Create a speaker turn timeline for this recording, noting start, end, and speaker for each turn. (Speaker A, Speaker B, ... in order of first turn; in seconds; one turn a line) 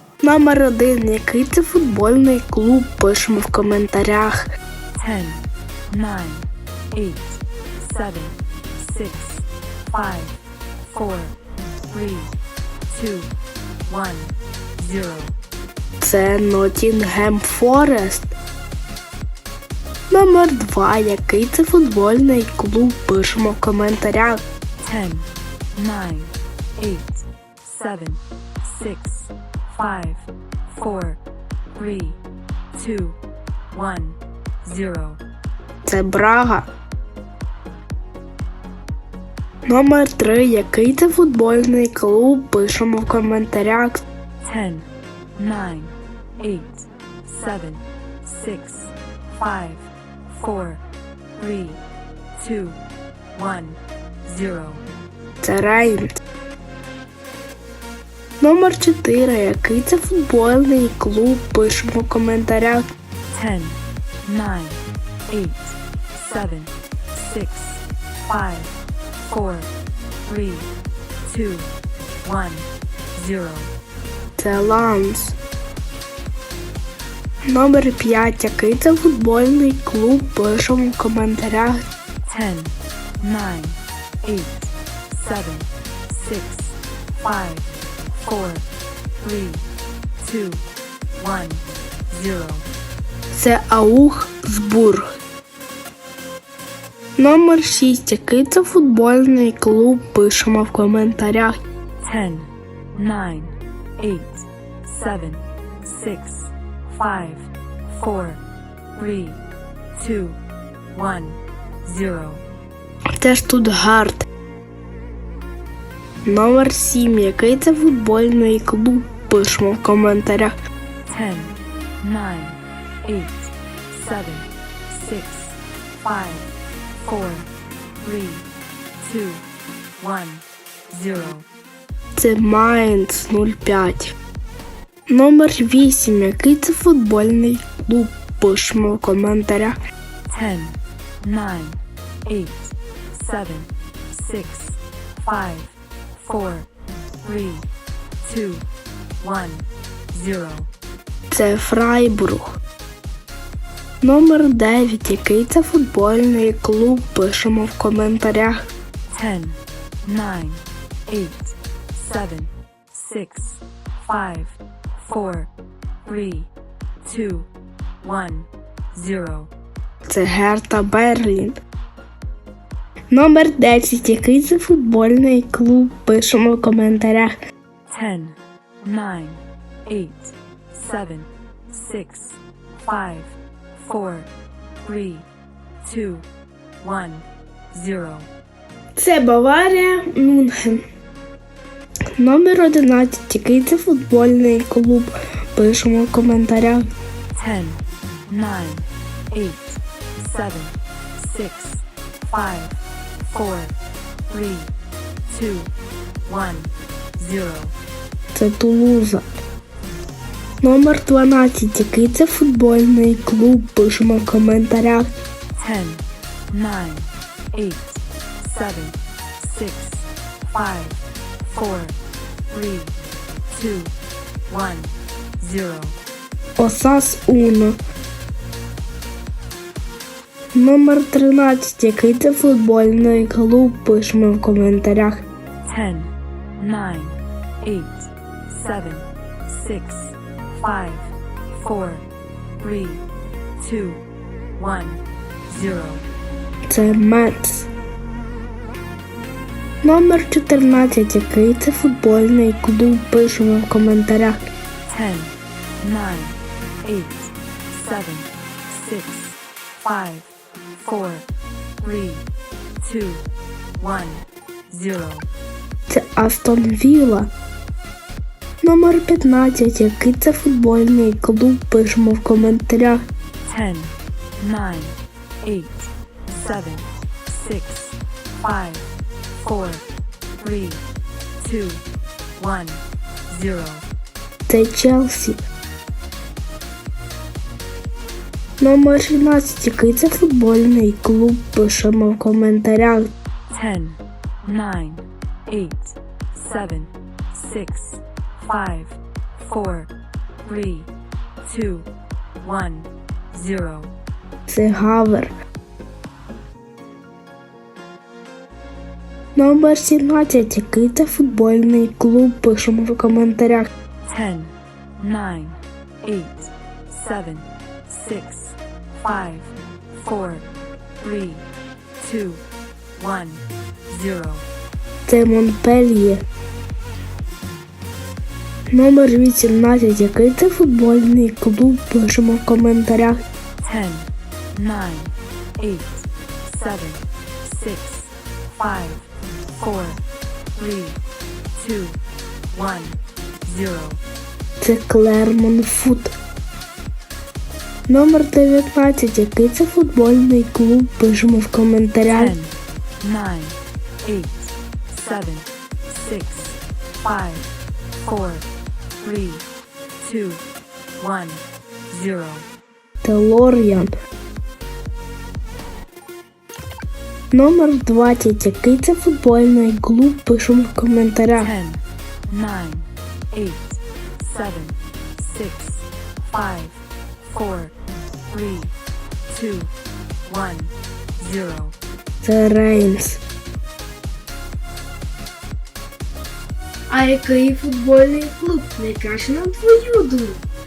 Speaker A: 0.2-4.4
Speaker B: 4.9-11.3
Speaker B: 11.9-12.3
Speaker B: 12.9-13.3
Speaker B: 13.9-15.3
Speaker A: 16.0-18.3
Speaker A: 20.1-24.4
Speaker B: 24.8-31.2
Speaker B: 31.7-32.2
Speaker B: 32.7-33.2
Speaker B: 33.7-35.2
Speaker A: 35.8-36.7
Speaker A: 39.7-44.0
Speaker B: 44.4-50.8
Speaker B: 51.4-51.8
Speaker B: 52.3-52.8
Speaker B: 53.3-54.8
Speaker A: 55.4-56.0
Speaker A: 58.4-62.9
Speaker B: 63.3-69.7
Speaker B: 70.2-70.7
Speaker B: 71.2-71.7
Speaker B: 72.2-73.7
Speaker A: 74.4-75.4
Speaker A: 77.5-81.8
Speaker B: 82.2-88.6
Speaker B: 89.2-89.6
Speaker B: 90.2-92.7
Speaker A: 93.3-95.0
Speaker A: 97.2-101.6
Speaker B: 102.0-108.4
Speaker B: 108.9-109.4
Speaker B: 109.9-110.4
Speaker B: 110.9-112.4
Speaker A: 113.2-114.2
Speaker A: 116.2-120.5
Speaker B: 121.1-127.5
Speaker B: 128.0-128.5
Speaker B: 129.0-129.4
Speaker B: 130.0-131.4
Speaker A: 132.2-134.2
Speaker A: 135.1-139.8
Speaker B: 140.3-146.7
Speaker B: 147.2-147.7
Speaker B: 148.2-148.7
Speaker B: 149.2-150.7
Speaker A: 151.3-152.6
Speaker A: 154.0-158.7
Speaker B: 159.1-165.5
Speaker B: 166.0-166.5
Speaker B: 167.0-167.5
Speaker B: 168.0-169.5
Speaker A: 170.1-171.6
Speaker A: 173.1-177.3
Speaker B: 177.9-184.3
Speaker B: 184.8-185.2
Speaker B: 185.8-186.2
Speaker B: 186.8-188.3
Speaker A: 189.0-190.8
Speaker A: 192.2-196.8
Speaker B: 197.3-203.8
Speaker B: 204.3-204.7
Speaker B: 205.3-205.7
Speaker B: 206.2-207.8
Speaker A: 208.3-209.2
Speaker A: 210.6-215.1
Speaker B: 215.5-222.0
Speaker B: 222.5-222.9
Speaker B: 223.5-223.9
Speaker B: 224.5-226.0
Speaker A: 226.6-227.8
Speaker A: 230.5-235.2
Speaker B: 235.6-242.1
Speaker B: 242.6-243.0
Speaker B: 243.6-244.0
Speaker B: 244.6-246.1
Speaker A: 246.7-247.7
Speaker A: 249.8-254.4
Speaker B: 254.9-261.2
Speaker B: 261.8-262.2
Speaker B: 262.8-263.2
Speaker B: 263.8-265.3
Speaker A: 265.9-267.3
Speaker A: 268.6-273.0
Speaker B: 273.4-279.8
Speaker B: 280.4-280.8
Speaker B: 281.4-281.8
Speaker B: 282.4-283.9
Speaker A: 284.5-285.4
Speaker A: 288.6-293.1
Speaker B: 293.5-299.9
Speaker B: 300.4-300.9
Speaker B: 301.4-301.9
Speaker B: 302.4-303.9
Speaker A: 304.5-305.3
Speaker A: 309.4-313.7
Speaker B: 314.0-320.4
Speaker B: 321.0-321.4
Speaker B: 322.0-322.4
Speaker B: 322.9-324.4
Speaker A: 325.1-326.2
Speaker A: 328.7-333.2
Speaker B: 333.6-340.0
Speaker B: 340.6-341.0
Speaker B: 341.6-342.0
Speaker B: 342.5-344.0
Speaker A: 344.6-346.1
Speaker A: 347.9-352.3
Speaker B: 352.1-358.4
Speaker B: 359.0-359.4
Speaker B: 360.0-360.4
Speaker B: 361.0-362.5
Speaker A: 363.0-363.9
Speaker A: 367.3-371.5
Speaker B: 371.4-377.7
Speaker B: 378.3-378.7
Speaker B: 379.3-379.7
Speaker B: 380.2-381.8
Speaker A: 382.2-383.2
Speaker C: 386.9-390.4